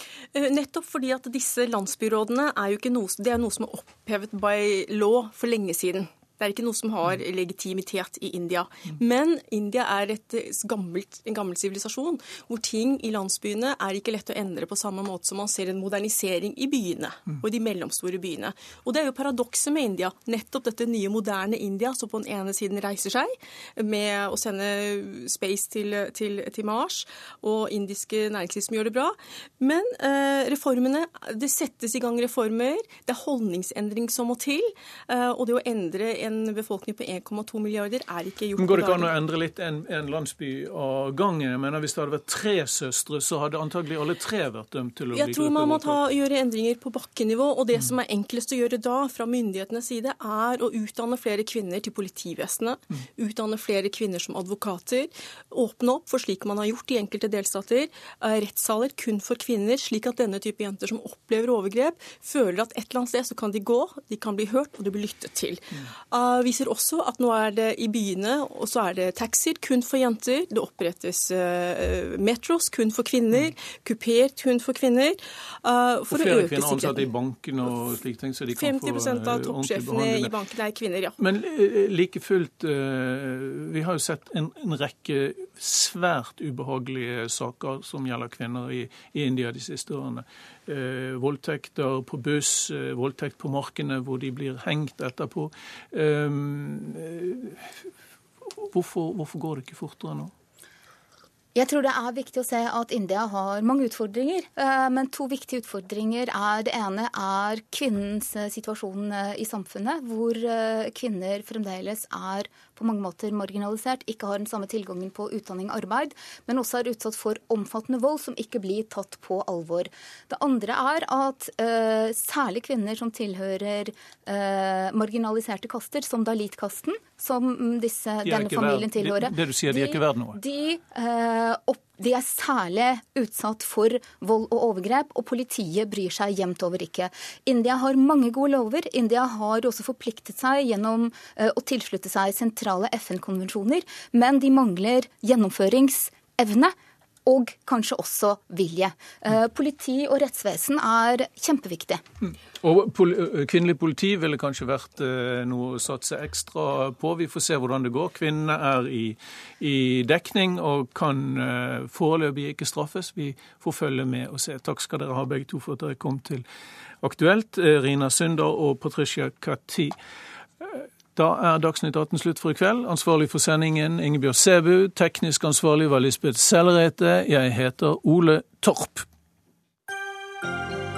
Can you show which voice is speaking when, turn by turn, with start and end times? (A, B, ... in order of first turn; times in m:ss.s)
0:00.3-0:39.1 A
0:38.6-0:46.0 B
0:45.1-1:17.1 A
1:16.1-1:20.3 B
1:18.6-1:21.2 A
1:21.2-1:37.8 B
1:38.6-1:40.3 B
1:41.5-2:26.7 C
2:08.2-2:10.4 B
2:27.2-2:32.0 C
2:32.2-2:46.4 B
2:47.0-2:49.9 B
2:50.6-2:59.0 B